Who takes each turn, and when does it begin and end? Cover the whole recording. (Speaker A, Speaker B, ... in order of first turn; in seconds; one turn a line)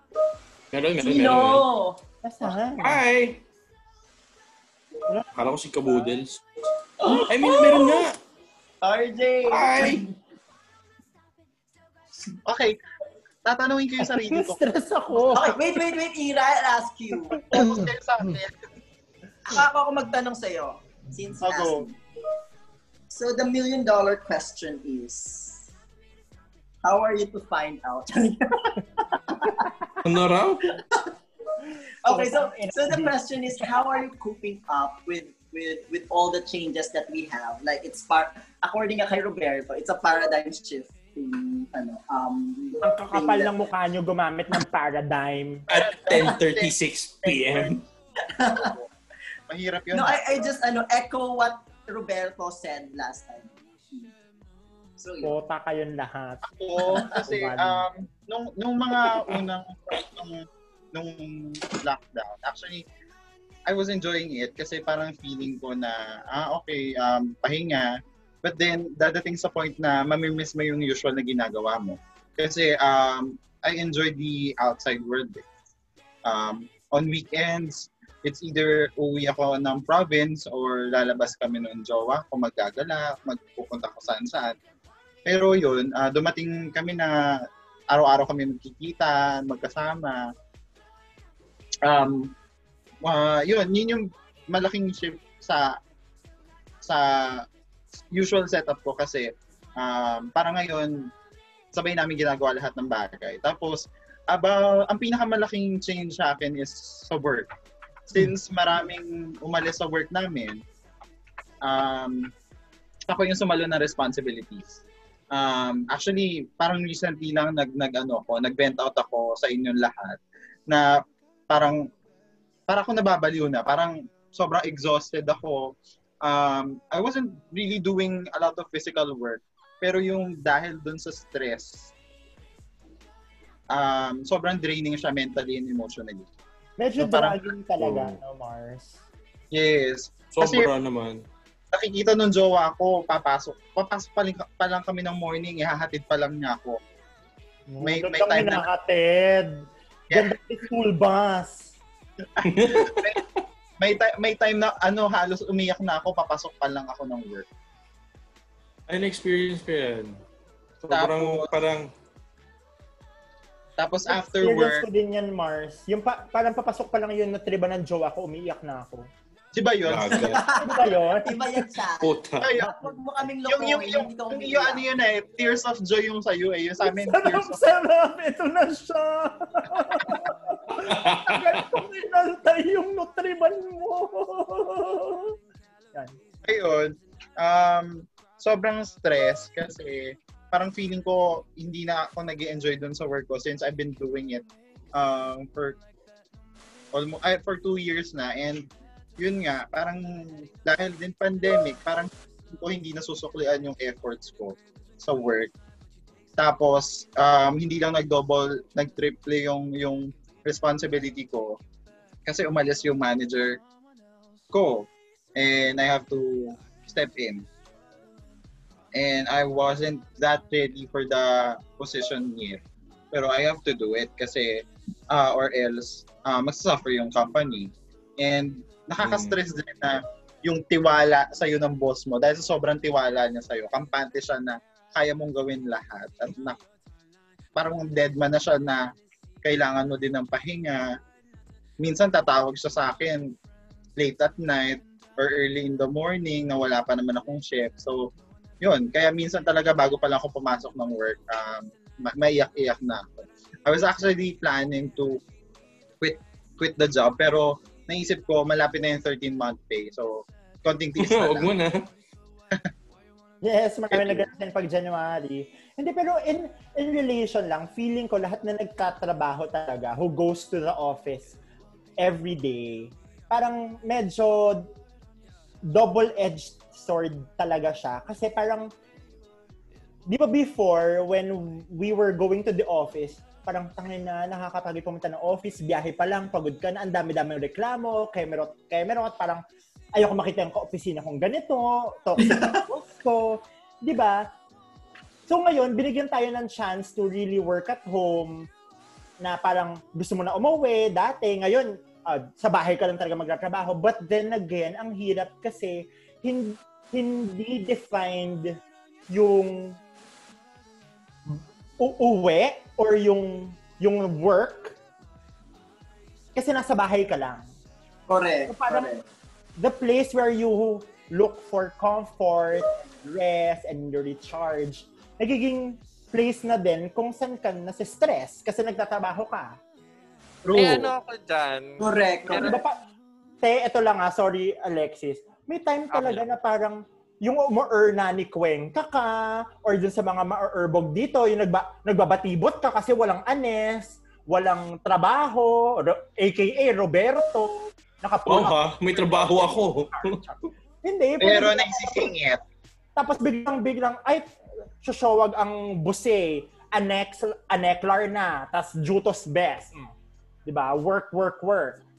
Speaker A: 0.7-1.7
Speaker B: 1.0-2.0
Speaker C: 2.2-3.0
Speaker A: 2.8-3.4
Speaker A: 5.3-6.4
Speaker B: 7.0-8.1
Speaker A: 7.1-8.2
Speaker B: 8.8-10.1
Speaker A: 9.5-10.0
Speaker D: 12.4-12.8
Speaker D: 13.4-14.6
Speaker C: 14.1-15.6
Speaker B: 15.2-17.4
Speaker D: 17.5-18.5
Speaker B: 19.5-21.9
Speaker D: 21.4-21.8
Speaker B: 23.1-25.7
Speaker B: 26.8-29.6
Speaker A: 30.0-30.7
Speaker B: 32.0-43.5
Speaker C: 32.1-33.1
Speaker C: 42.8-45.6
Speaker A: 45.7-47.8
Speaker D: 45.7-46.7
Speaker D: 47.2-47.7
Speaker B: 48.3-48.7
Speaker D: 48.5-48.9
Speaker D: 49.5-50.5
Speaker B: 49.9-54.1
Speaker B: 55.0-55.4
Speaker C: 55.2-56.4
Speaker D: 56.4-62.8
Speaker C: 57.1-57.9
Speaker D: 63.7-75.4
Speaker D: 76.2-84.5
Speaker D: 85.2-87.3
Speaker D: 87.9-90.3
Speaker D: 91.8-92.3
Speaker D: 93.0-95.8
Speaker D: 96.8-97.4
Speaker D: 98.1-101.1
Speaker D: 101.7-107.5
Speaker D: 108.1-110.6
Speaker D: 111.6-112.3
Speaker D: 113.1-114.8
Speaker D: 115.3-120.9
Speaker D: 121.5-121.9
Speaker D: 122.7-131.9
Speaker D: 133.7-136.3
Speaker C: 136.8-139.0
Speaker D: 137.0-137.5
Speaker A: 137.8-138.2
Speaker D: 139.5-140.7
Speaker A: 140.3-141.2
Speaker D: 141.7-146.8
Speaker C: 147.7-151.7
Speaker D: 147.8-148.7
Speaker D: 152.4-153.2
Speaker A: 152.4-153.2
Speaker D: 153.8-157.4
Speaker A: 158.9-160.2
Speaker A: 160.8-161.9
Speaker D: 160.9-161.5
Speaker D: 163.8-164.8
Speaker C: 164.1-169.1
Speaker D: 169.5-170.4
Speaker A: 169.8-170.4
Speaker B: 170.1-174.8
Speaker C: 170.6-171.4
Speaker A: 172.0-172.5
Speaker D: 172.4-172.9
Speaker D: 173.4-177.6
Speaker C: 176.8-185.3
Speaker A: 180.8-181.4
Speaker D: 186.4-195.8
Speaker D: 196.9-198.7
Speaker D: 199.2-205.5
Speaker D: 206.4-211.6
Speaker D: 212.2-213.6
Speaker D: 214.5-217.4
Speaker D: 218.9-222.6
Speaker D: 223.1-236.6
Speaker A: 229.0-229.4
Speaker D: 237.5-238.9
Speaker D: 239.4-240.9
Speaker D: 241.8-243.3
Speaker D: 244.0-255.2
Speaker D: 256.0-261.5
Speaker A: 261.0-261.9
Speaker C: 263.4-271.4
Speaker C: 272.0-274.7
Speaker C: 275.6-278.7
Speaker C: 280.1-289.4
Speaker C: 289.9-294.3
Speaker B: 292.2-292.6
Speaker C: 295.3-298.5
Speaker C: 299.2-308.6
Speaker C: 309.1-309.8
Speaker C: 311.3-314.7
Speaker C: 316.3-317.5
Speaker B: 318.1-319.0
Speaker C: 318.5-318.9
Speaker C: 319.6-329.6
Speaker E: 330.5-332.5
Speaker B: 331.8-332.6
Speaker C: 332.3-332.8
Speaker C: 333.4-352.1
Speaker E: 335.9-336.2
Speaker A: 348.2-350.2
Speaker D: 351.2-352.4
Speaker C: 352.9-354.3
Speaker C: 354.8-359.9
Speaker C: 360.4-361.8